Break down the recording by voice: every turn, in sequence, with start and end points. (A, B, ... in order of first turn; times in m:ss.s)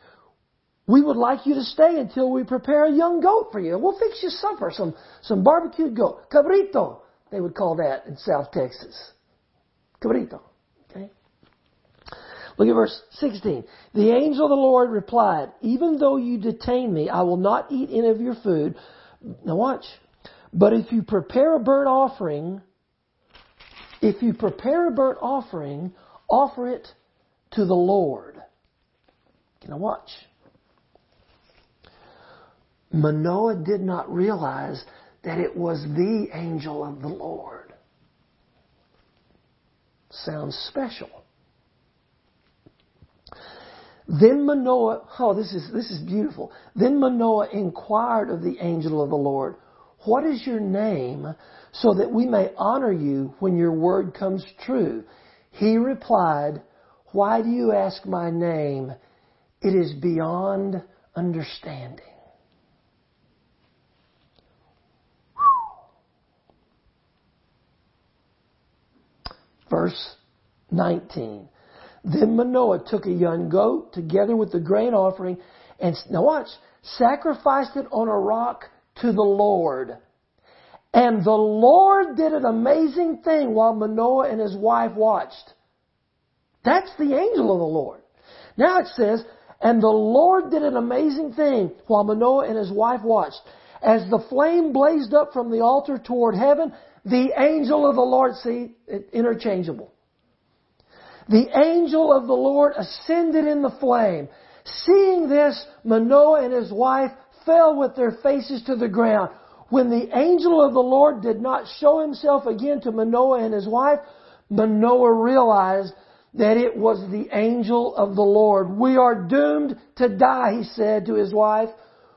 0:00.9-0:09.1 A
0:10.0-0:11.1 A
0:12.6-0:22.6 A
0:24.0-0:26.9 A
0:27.5-0:28.4 A
0:29.6-0:30.3 A
0:32.9-0:37.7 A
0:40.1-0:41.2 A
0:44.1-0:58.9 A
0:59.6-1:02.1 A
1:09.7-1:10.2 A
1:10.7-1:11.5 A
1:12.0-1:20.0 A
1:20.9-1:25.5 A
1:26.6-1:28.0 A
1:28.6-1:39.9 A
1:41.3-2:01.7 A